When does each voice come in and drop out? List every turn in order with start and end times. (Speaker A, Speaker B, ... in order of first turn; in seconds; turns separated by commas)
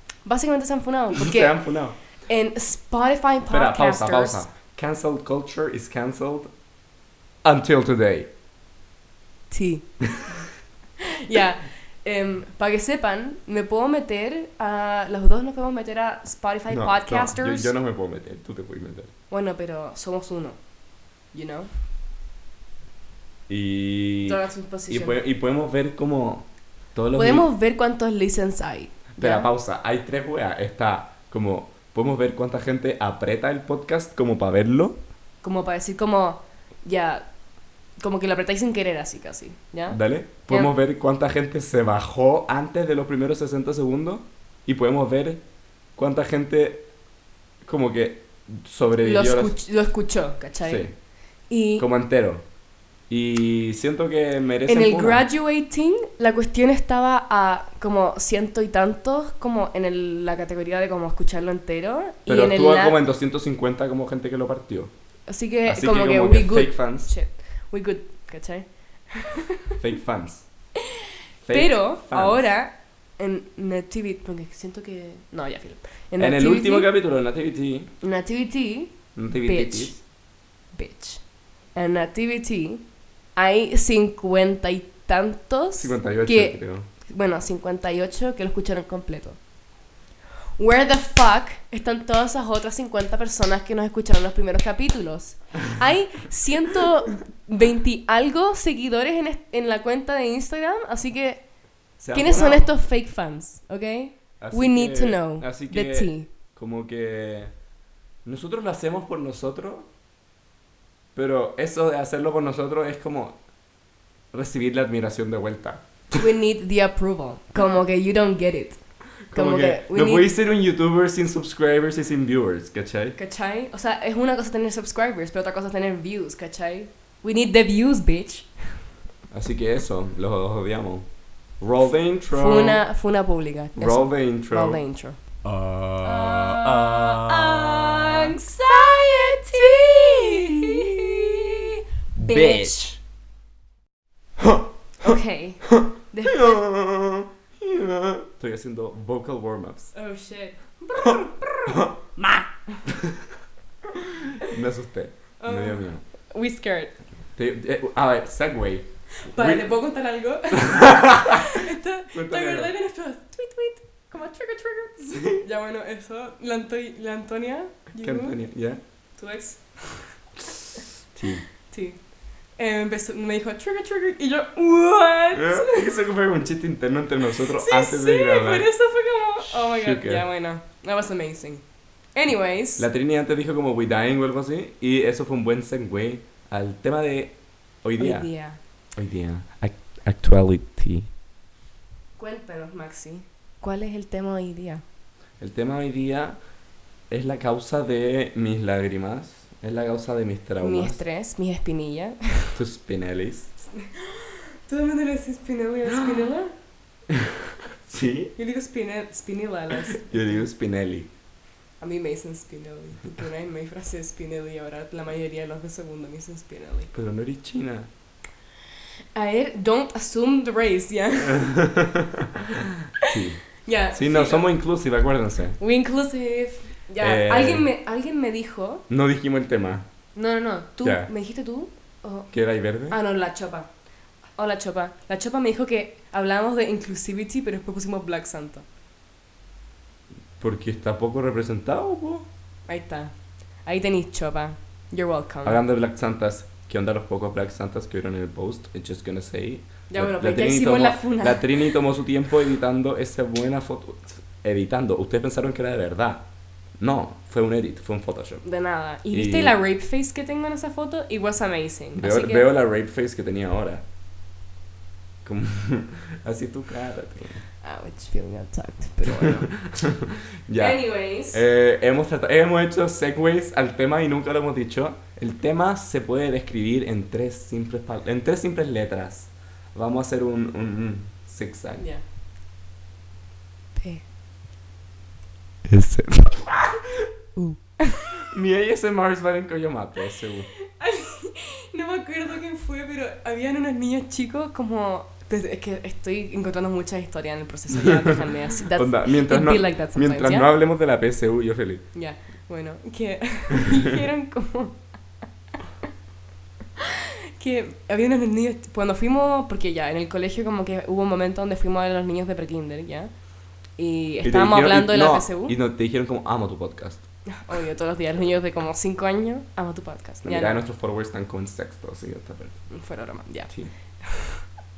Speaker A: 0.2-1.6, Speaker B: 1.1-2.0, Speaker A: 2.3-4.4, Speaker B: 3.5-6.5, Speaker B: 7.4-8.3, Speaker A: 9.5-9.9, Speaker A: 11.0-17.7, Speaker B: 16.7-19.1, Speaker A: 19.3-20.6, Speaker A: 21.3-21.7, Speaker B: 23.5-27.5, Speaker A: 24.2-25.2, Speaker A: 27.1-29.5, Speaker B: 29.2-35.0, Speaker A: 35.4-37.3, Speaker A: 38.0-40.7, Speaker B: 39.9-45.4, Speaker B: 46.0-46.9, Speaker B: 47.6-49.5, Speaker A: 49.0-50.8, Speaker B: 50.6-50.9, Speaker A: 51.5-51.9, Speaker B: 51.8-52.5, Speaker B: 53.1-55.2, Speaker A: 54.6-63.0, Speaker B: 62.3-64.9, Speaker A: 65.3-69.8, Speaker B: 65.7-67.1, Speaker B: 69.8-70.5, Speaker B: 71.4-72.4, Speaker A: 71.5-76.9, Speaker B: 76.2-77.9, Speaker A: 78.0-80.0, Speaker B: 79.2-80.0, Speaker A: 80.7-81.2, Speaker A: 81.7-82.8, Speaker A: 83.4-89.4, Speaker B: 85.8-86.9, Speaker A: 90.6-101.5, Speaker B: 102.0-102.7, Speaker A: 102.1-106.3, Speaker B: 104.4-107.5, Speaker B: 108.2-109.9, Speaker B: 111.2-113.4, Speaker B: 114.3-115.8, Speaker A: 116.1-118.8, Speaker B: 119.3-123.2, Speaker A: 119.3-120.3, Speaker A: 123.2-128.8, Speaker B: 129.3-131.1, Speaker B: 131.6-132.8, Speaker A: 132.3-135.2, Speaker B: 133.8-134.8, Speaker B: 135.4-141.7, Speaker A: 136.0-142.9, Speaker B: 142.2-143.0, Speaker B: 144.4-145.1, Speaker A: 145.0-146.6, Speaker B: 145.8-149.9, Speaker A: 149.9-151.2, Speaker B: 150.9-153.2, Speaker B: 153.9-156.0, Speaker A: 155.4-156.9, Speaker B: 157.4-159.7, Speaker A: 159.1-168.4, Speaker B: 160.5-161.6, Speaker B: 162.1-162.7, Speaker B: 168.0-168.8, Speaker A: 169.2-170.1, Speaker B: 171.1-171.4, Speaker A: 171.7-172.0, Speaker A: 172.6-175.9, Speaker B: 175.3-178.7, Speaker A: 177.4-181.6, Speaker B: 179.4-180.2, Speaker A: 182.1-182.9, Speaker B: 182.8-188.3, Speaker A: 188.0-188.6, Speaker B: 188.9-191.1, Speaker A: 192.2-194.8, Speaker B: 195.4-196.4, Speaker B: 197.1-201.0, Speaker A: 200.6-202.6, Speaker B: 202.5-203.5, Speaker A: 203.8-206.5, Speaker B: 207.1-208.3, Speaker A: 208.3-210.3, Speaker B: 209.9-211.1, Speaker A: 211.8-216.9, Speaker B: 216.9-217.9, Speaker A: 219.1-221.5, Speaker B: 221.3-225.6, Speaker A: 223.6-224.5, Speaker A: 225.6-228.8, Speaker B: 227.0-227.7, Speaker B: 228.9-229.9, Speaker A: 230.1-232.3, Speaker B: 230.8-231.1, Speaker B: 232.3-233.0, Speaker A: 232.9-233.7, Speaker A: 234.3-238.6, Speaker B: 240.4-242.2, Speaker A: 242.7-243.1, Speaker A: 243.6-245.6, Speaker B: 245.4-256.3, Speaker A: 249.9-251.7, Speaker B: 256.8-258.4, Speaker A: 258.4-262.4, Speaker B: 259.1-259.5, Speaker B: 261.9-263.8, Speaker B: 265.2-267.4, Speaker A: 267.6-269.5, Speaker B: 269.1-281.8, Speaker A: 270.6-271.4, Speaker A: 281.8-282.0, Speaker A: 283.8-284.0, Speaker B: 285.6-287.1, Speaker A: 287.4-288.1, Speaker B: 288.2-290.5, Speaker A: 290.7-300.5, Speaker B: 297.8-301.8, Speaker A: 301.9-304.9, Speaker A: 306.8-313.1, Speaker A: 313.8-315.6, Speaker B: 314.2-317.1, Speaker A: 317.3-320.6, Speaker B: 320.2-322.7, Speaker A: 322.7-324.4